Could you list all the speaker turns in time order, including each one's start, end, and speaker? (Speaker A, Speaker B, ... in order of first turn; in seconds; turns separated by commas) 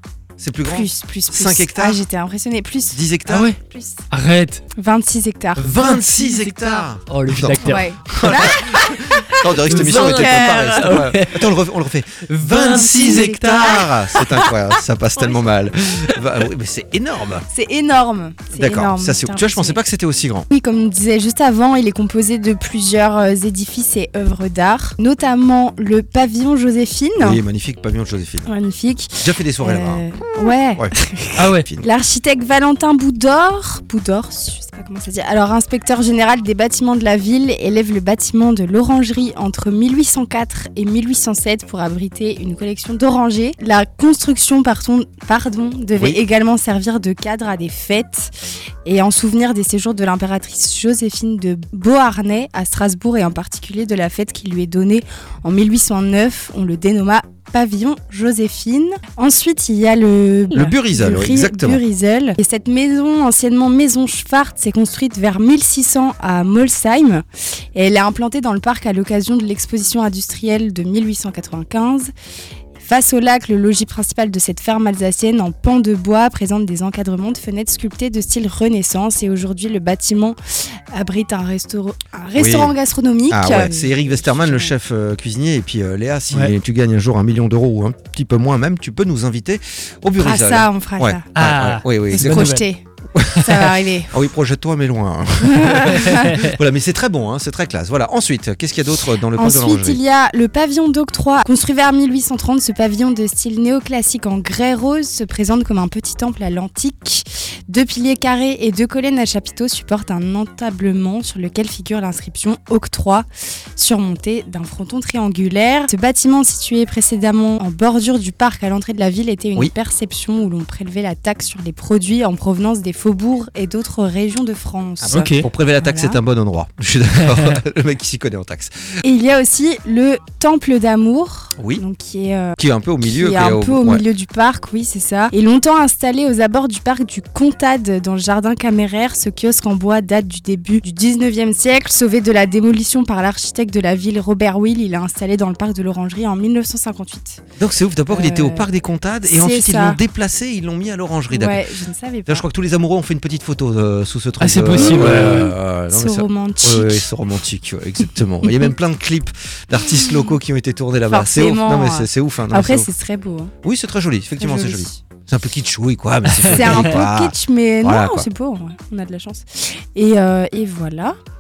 Speaker A: 0.4-2.0, Speaker B: 0.7-3.0, Speaker A: 2.9-3.5, Speaker C: 3.3-3.6, Speaker B: 3.6-4.0, Speaker C: 4.1-4.6, Speaker B: 4.8-5.7, Speaker C: 5.6-11.6, Speaker A: 5.6-17.5, Speaker B: 7.6-11.0, Speaker C: 12.3-14.4, Speaker B: 12.5-14.2, Speaker B: 17.5-19.8, Speaker A: 18.5-20.5, Speaker B: 20.5-27.4, Speaker A: 27.2-28.5, Speaker B: 28.5-48.3, Speaker A: 29.2-30.1, Speaker A: 30.8-31.9, Speaker C: 31.4-31.7, Speaker B: 48.9-72.1, Speaker A: 60.5-61.8, Speaker B: 72.8-80.4, Speaker B: 80.9-84.7, Speaker A: 82.4-82.7, Speaker A: 83.3-92.5, Speaker B: 90.2-91.3, Speaker C: 91.3-92.7, Speaker B: 92.0-94.2, Speaker A: 93.1-100.0, Speaker B: 95.4-96.5, Speaker B: 99.3-113.3, Speaker B: 113.8-126.2, Speaker A: 125.0-128.7, Speaker C: 125.1-125.5, Speaker B: 129.0-147.4, Speaker A: 131.6-131.8, Speaker A: 132.6-134.0, Speaker A: 147.6-151.6, Speaker B: 148.1-148.7, Speaker B: 149.2-150.0, Speaker B: 151.3-152.5, Speaker A: 152.3-162.9, Speaker C: 154.4-155.5, Speaker B: 154.7-157.1, Speaker B: 158.4-158.7, Speaker B: 159.8-160.3, Speaker B: 161.1-163.5, Speaker A: 163.6-168.3, Speaker B: 164.4-165.0, Speaker C: 166.3-166.7, Speaker B: 166.5-171.2